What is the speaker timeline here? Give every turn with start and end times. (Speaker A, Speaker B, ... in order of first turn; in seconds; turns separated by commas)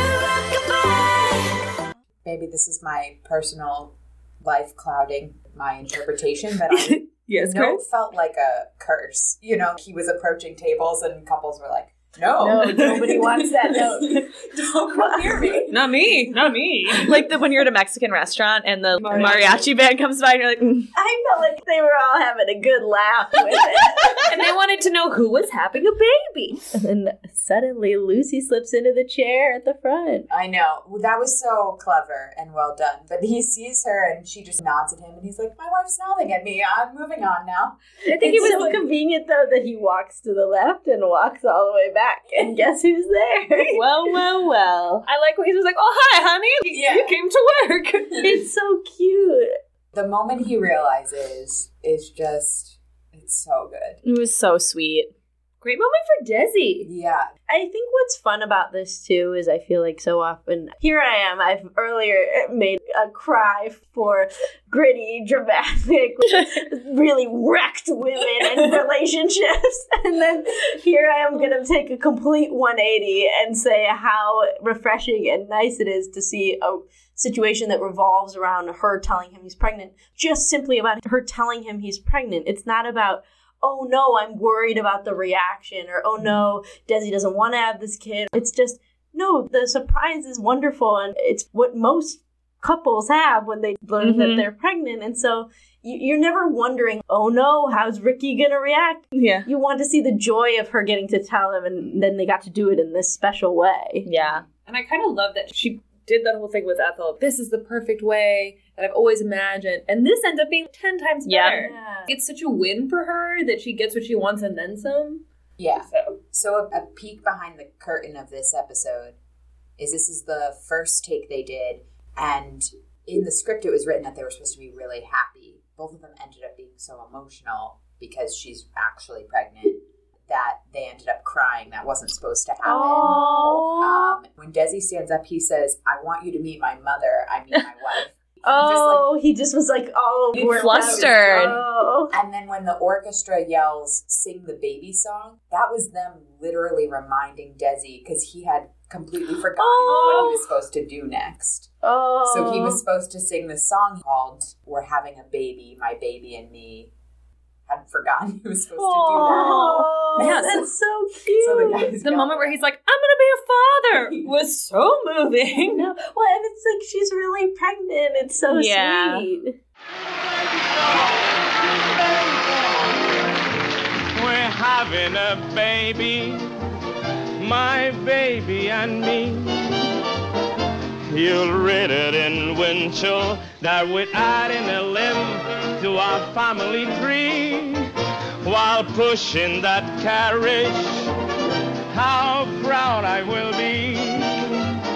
Speaker A: 2.2-15.9, Speaker B: 6.7-7.8, Speaker C: 12.4-14.3, Speaker C: 14.9-15.7, Speaker B: 15.7-17.4, Speaker D: 16.9-20.9, Speaker B: 19.0-19.7, Speaker C: 19.1-19.4, Speaker C: 20.9-24.2, Speaker B: 24.2-26.6, Speaker C: 26.7-30.3, Speaker A: 30.3-37.8, Speaker B: 38.1-38.8, Speaker C: 38.1-43.8, Speaker D: 43.7-45.1, Speaker B: 45.1-48.4, Speaker A: 46.7-47.1, Speaker C: 48.2-49.5, Speaker A: 49.9-54.0, Speaker D: 54.0-55.1, Speaker B: 55.6-56.9, Speaker A: 56.8-57.3, Speaker C: 57.5-104.1, Speaker D: 94.0-94.5, Speaker D: 99.2-99.5, Speaker D: 104.0-104.5, Speaker B: 104.7-115.2, Speaker D: 111.3-111.7, Speaker C: 111.6-112.1, Speaker A: 115.6-119.2, Speaker B: 115.9-116.2, Speaker A: 119.8-139.1, Speaker C: 132.6-133.8, Speaker B: 132.9-133.4, Speaker D: 133.3-133.6, Speaker C: 138.4-142.2, Speaker B: 140.4-141.5, Speaker A: 140.4-156.9, Speaker D: 140.5-141.6, Speaker D: 149.7-150.1, Speaker C: 149.8-150.4, Speaker C: 151.8-152.8, Speaker A: 157.7-160.7, Speaker C: 159.1-162.0, Speaker B: 159.1-160.7, Speaker A: 161.3-162.6, Speaker B: 162.0-165.9, Speaker A: 163.9-164.3, Speaker C: 165.7-169.6, Speaker D: 168.5-169.3, Speaker E: 170.2-173.2, Speaker E: 174.1-176.5, Speaker E: 177.4-179.8, Speaker E: 181.1-187.9, Speaker E: 188.4-191.1, Speaker E: 191.9-194.6